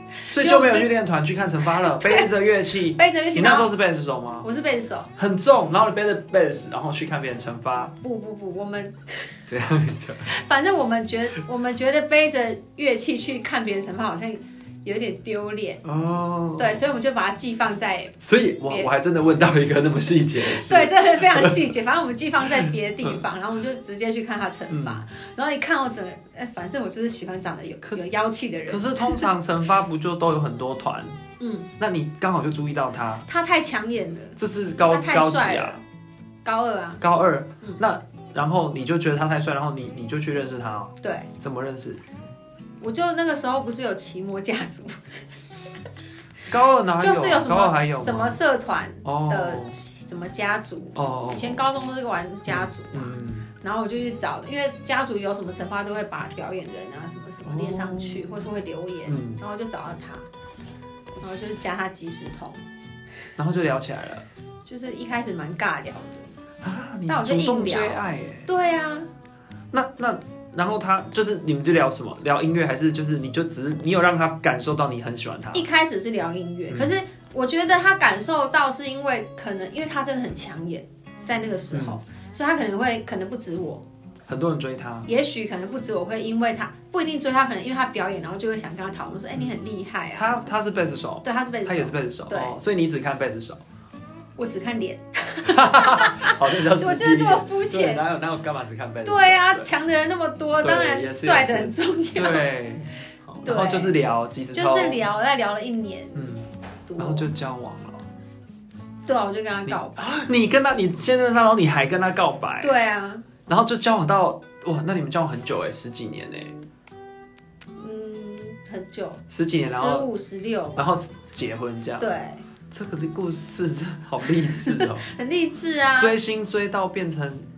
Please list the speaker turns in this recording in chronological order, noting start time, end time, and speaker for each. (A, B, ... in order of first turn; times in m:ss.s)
0:00.3-0:00.9 A
0:00.3-0:04.5 B
0:01.7-0:02.3 A
0:02.9-0:03.7 A
0:04.4-0:05.1 A
0:05.2-0:08.0 B
0:08.0-0:09.4 A
0:09.5-0:10.3 B
0:10.3-0:15.8 A
0:15.8-0:16.8 B
0:16.6-0:18.9 A
0:18.2-0:21.7 B
0:20.4-0:29.3 A
0:22.6-0:23.2 B
0:24.7-0:25.0 B
0:28.7-0:31.2 B
0:31.4-0:31.7 A
0:31.8-0:33.3 B
0:33.3-0:35.8 A
0:34.4-0:35.8 B
0:36.4-0:37.0 A
0:37.0-0:42.0 B
0:41.0-0:41.3 A
0:42.8-0:45.0 A
0:46.5-0:48.4 B
0:47.0-1:00.3 A
0:49.0-0:49.8 B
0:51.0-0:51.6 B
0:52.5-0:53.5 B
0:57.4-0:58.5 B
0:59.1-0:59.4 B
1:01.2-1:02.6 A
1:03.4-1:04.2 B
1:04.6-1:06.3 A
1:06.6-1:08.5 B
1:07.1-1:09.1 A
1:09.7-1:15.7 B
1:15.5-1:23.8 A
1:16.7-1:17.0 B
1:21.7-1:22.0 B
1:24.3-1:25.1 B
1:25.1-1:30.5 A
1:30.2-1:33.6 B
1:31.2-1:32.6 A
1:34.4-1:38.0 A
1:35.4-1:39.7 B
1:39.0-1:42.5 A
1:40.6-1:45.0 B
1:43.4-1:43.9 A
1:44.5-1:46.3 A
1:46.2-1:48.1 B
1:46.9-1:47.3 A
1:49.1-1:50.1 A
1:49.7-1:52.8 B
1:52.6-1:53.3 A
1:53.5-1:56.6 B
1:57.8-2:00.9 A
1:59.3-2:00.1 B
2:00.8-2:02.1 B
2:02.0-2:02.4 A
2:02.7-2:05.1 B
2:04.5-2:06.2 A
2:06.0-2:07.5 B